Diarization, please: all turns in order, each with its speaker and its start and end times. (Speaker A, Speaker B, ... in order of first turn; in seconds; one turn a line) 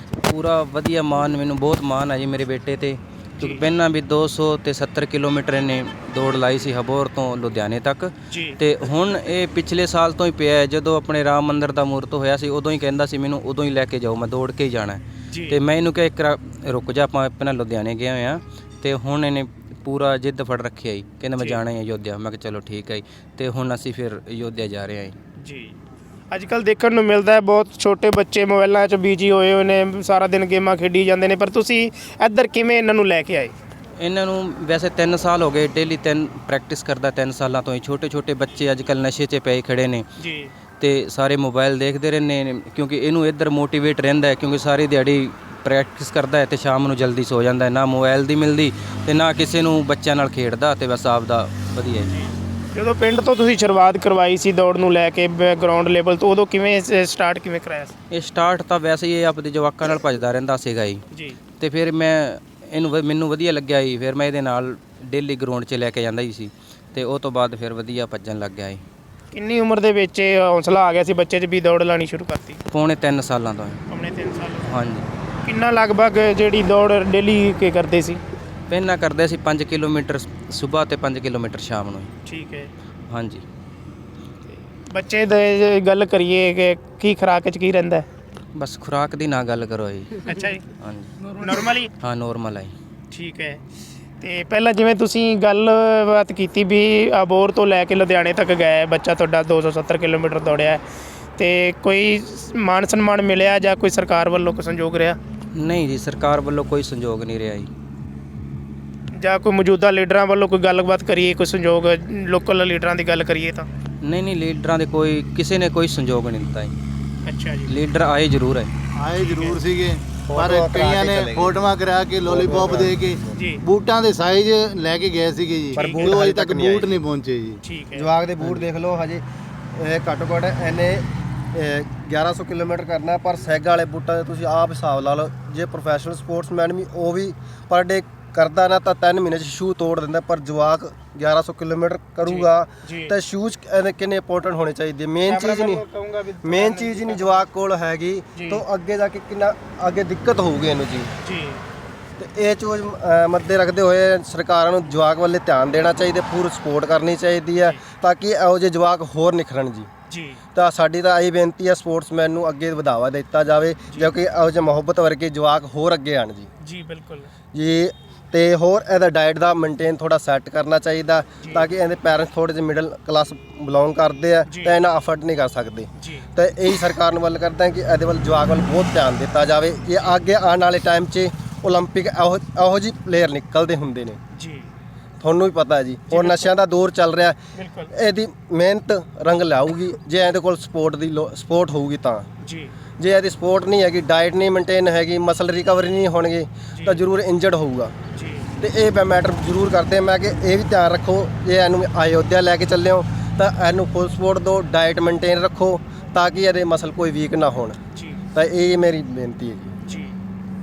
Speaker A: 0.3-25.2
Speaker B: 3.4-3.6
Speaker B: 8.3-8.6
Speaker B: 15.3-15.6
Speaker B: 25.4-25.8
Speaker B: 26.3-33.5
Speaker A: 34.0-40.1
Speaker B: 40.2-40.5
Speaker A: 40.8-52.1
Speaker B: 52.1-57.9
Speaker A: 58.1-61.0
Speaker B: 61.1-61.4
Speaker A: 61.6-68.8
Speaker B: 69.3-72.6
Speaker A: 72.7-73.8
Speaker B: 73.9-74.7
Speaker A: 74.7-75.1
Speaker B: 75.4-78.2
Speaker A: 78.7-82.1
Speaker B: 82.2-82.7
Speaker A: 83.1-83.4
Speaker B: 84.5-88.1
Speaker A: 88.6-90.3
Speaker B: 90.3-90.6
Speaker A: 90.8-91.1
Speaker B: 91.2-91.9
Speaker A: 92.0-92.7
Speaker B: 93.1-93.6
Speaker B: 94.2-100.8
Speaker B: 101.4-105.2
Speaker A: 105.6-107.7
Speaker B: 109.2-113.7
Speaker A: 114.0-116.7
Speaker B: 117.2-117.7
Speaker A: 117.7-118.7
Speaker C: 119.0-127.6
Speaker B: 119.2-119.6
Speaker D: 120.3-121.6
Speaker D: 122.2-123.4
Speaker B: 123.3-123.6
Speaker B: 125.8-126.2
Speaker D: 125.8-127.0
Speaker B: 127.6-128.1
Speaker D: 127.9-129.2
Speaker D: 129.8-145.8
Speaker B: 142.2-143.1
Speaker B: 145.2-147.5
Speaker D: 146.4-151.1
Speaker B: 148.4-148.6
Speaker B: 151.2-151.6
Speaker D: 152.2-159.9
Speaker B: 160.1-160.4
Speaker D: 160.6-166.5
Speaker B: 166.6-167.3
Speaker D: 167.5-184.2
Speaker B: 174.5-174.7
Speaker B: 176.0-176.2
Speaker B: 184.3-184.7
Speaker D: 185.2-187.4
Speaker B: 186.1-186.5
Speaker B: 187.6-187.9
Speaker D: 187.9-192.3
Speaker B: 192.4-192.7
Speaker D: 193.0-197.9
Speaker B: 198.1-198.5
Speaker D: 198.6-207.8
Speaker B: 207.9-208.2
Speaker D: 208.3-209.8
Speaker B: 209.9-210.1